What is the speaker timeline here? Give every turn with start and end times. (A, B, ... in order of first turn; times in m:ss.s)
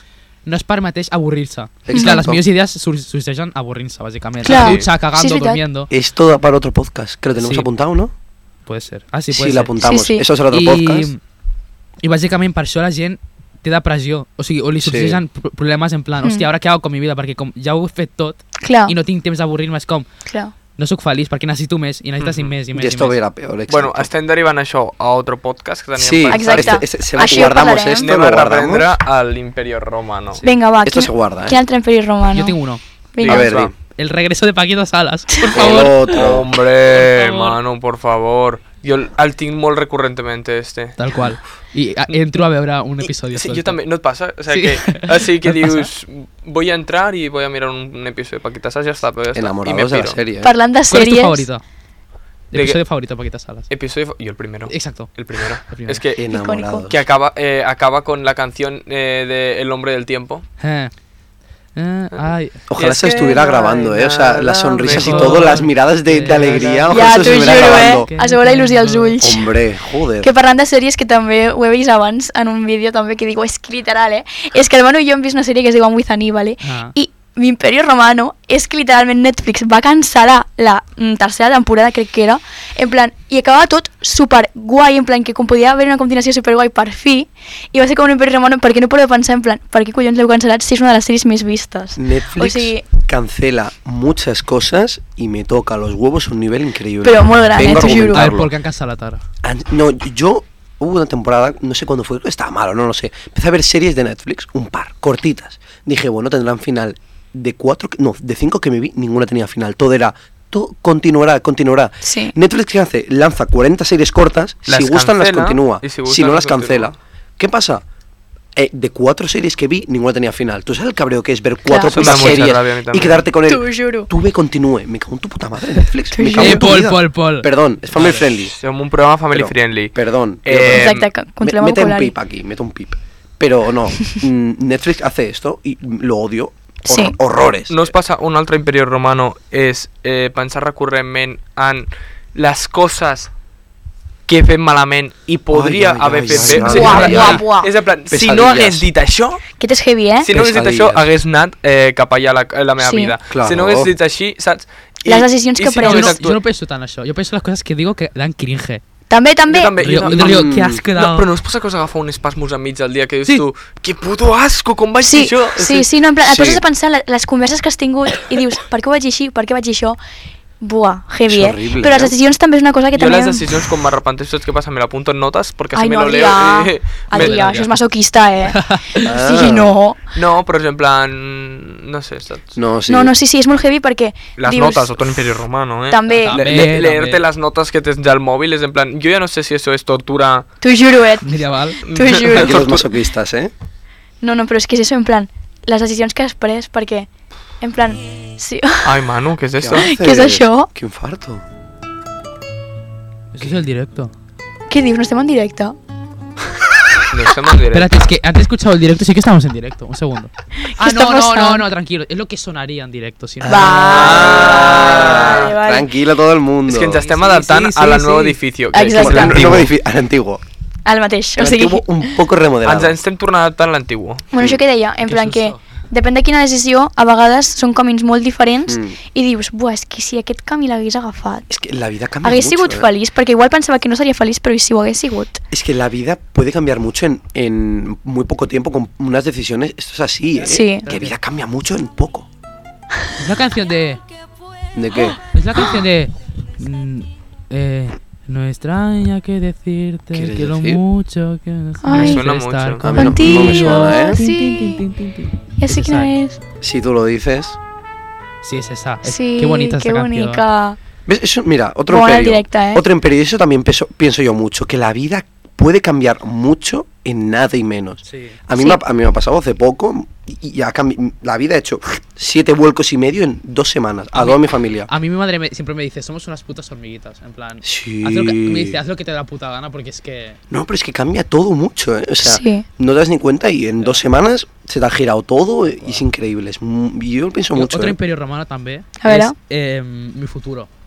0:00.4-0:05.9 A
0:01.8-0:02.4 B
0:01.9-0:02.2 C
0:04.4-0:05.6 C
0:04.5-0:04.9 D
0:05.9-0:08.1 B
0:07.4-0:07.7 A
0:08.6-0:09.8 A
0:09.3-0:11.1 B
0:09.8-0:10.2 C
0:10.5-0:11.2 A
0:12.0-0:20.1 A
0:14.8-0:15.2 B
0:18.6-0:18.9 C
0:20.3-0:20.5 C
0:20.8-0:23.2 A
0:22.2-0:22.5 D
0:22.7-0:24.1 B
0:23.7-0:30.4 D
0:26.0-0:28.9 B
0:26.3-0:28.1 C
0:30.4-0:32.6 C
0:30.8-0:31.6 B
0:32.3-0:32.8 A
0:33.1-0:33.5 C
0:33.2-0:33.7 D
0:33.2-0:33.7 B
0:33.9-0:36.2 A
0:35.3-0:35.7 C
0:35.5-0:36.6 B
0:36.0-0:41.0 D
0:36.9-0:37.6 A
0:41.0-0:43.8 A
0:43.0-0:50.2 D
0:44.5-0:45.9 A
0:49.3-0:50.5 B
0:50.4-0:51.5 C
0:50.9-0:51.6 A
0:52.5-0:53.7 A
0:52.5-0:52.8 D
0:53.7-0:56.2 D
0:54.7-0:55.1 A
0:55.7-0:56.0 A
0:56.2-0:57.0 B
0:56.3-0:56.9 C
0:56.9-1:00.4 D
1:00.6-1:00.9 A
1:01.7-1:02.6 A
1:02.7-1:08.1 B
1:02.7-1:05.6 D
1:04.9-1:09.2 A
1:06.9-1:09.5 C
1:09.2-1:10.3 B
1:10.2-1:32.8 C
1:16.6-1:16.9 A
1:32.0-1:38.5 B
1:37.0-1:38.3 C
1:37.6-1:39.2 A
1:39.4-1:57.8 B
1:52.0-1:52.3 C
1:54.7-1:56.9 D
1:58.6-2:08.5 B
2:01.7-2:02.5 C
2:01.9-2:03.2 D
2:03.5-2:04.1 C
2:06.1-2:06.8 C
2:06.3-2:08.2 A
2:08.2-2:11.1 D
2:09.3-2:17.9 B
2:10.7-2:12.1 C
2:16.9-2:17.2 C
2:17.7-2:23.3 D
2:24.3-2:29.4 D
2:25.5-2:27.4 B
2:26.3-2:27.4 A
2:26.4-2:27.7 C
2:28.1-2:28.9 B
2:29.6-2:30.3 C
2:30.2-2:36.4 D
2:30.3-2:31.0 B
2:32.8-2:33.1 C
2:33.3-2:33.9 B
2:35.1-2:36.2 C
2:35.8-2:38.8 A
2:39.1-2:39.8 C
2:39.5-2:45.9 D
2:39.8-2:41.3 A
2:40.1-2:40.8 B
2:45.0-2:50.0 C
2:46.2-2:46.6 B
2:50.6-2:53.5 C
2:51.3-2:52.1 B
2:52.9-2:57.5 D
2:55.7-3:00.0 C
2:57.1-2:57.8 A
2:58.4-2:59.1 A
2:59.0-2:59.8 B
3:00.1-3:02.6 D
3:02.6-3:03.1 B
3:02.9-3:05.4 C
3:04.4-3:10.4 D
3:05.9-3:06.4 C
3:06.1-3:07.2 A
3:10.6-3:12.8 C
3:11.2-3:11.8 A
3:11.8-3:12.8 D
3:12.3-3:13.5 B
3:14.2-3:17.1 C
3:17.6-3:19.0 C
3:18.8-3:19.9 D
3:19.6-3:21.4 B
3:19.7-3:20.7 C
3:23.3-3:24.1 A
3:24.7-3:25.8 C
3:27.1-3:27.9 D
3:27.7-3:34.2 A
3:30.6-3:31.6 C
3:33.4-3:37.0 B
3:33.4-3:35.9 C
3:33.9-3:35.5 D
3:36.7-3:39.7 D
3:37.0-3:38.4 A
3:38.7-3:39.4 C
3:38.9-3:40.4 B
3:40.8-3:41.8 C
3:41.4-3:43.0 B
3:42.6-3:44.3 D
3:44.3-3:51.5 C
3:44.4-3:44.6 B
3:45.0-3:45.6 A
3:48.7-3:49.0 B
3:51.5-3:52.9 B
3:52.2-3:55.4 C
3:55.5-4:02.3 B
4:00.4-4:01.1 A
4:00.5-4:00.9 C
4:03.2-4:04.0 A
4:04.7-4:05.2 B
4:05.3-4:16.1 A
4:10.1-4:10.8 B
4:11.8-4:12.2 C
4:11.9-4:13.0 D
4:12.8-4:14.2 B
4:13.0-4:14.8 C
4:15.6-4:16.4 C
4:16.6-4:17.6 B
4:18.4-4:20.4 A
4:19.0-4:20.8 C
4:21.1-4:34.9 B
4:21.9-4:22.8 C
4:28.0-4:28.4 A
4:28.6-4:28.8 C
4:34.1-4:40.4 A
4:37.6-4:38.8 B
4:40.5-4:48.0 B
4:42.2-4:42.6 C
4:47.5-4:50.7 A
4:49.0-4:49.3 C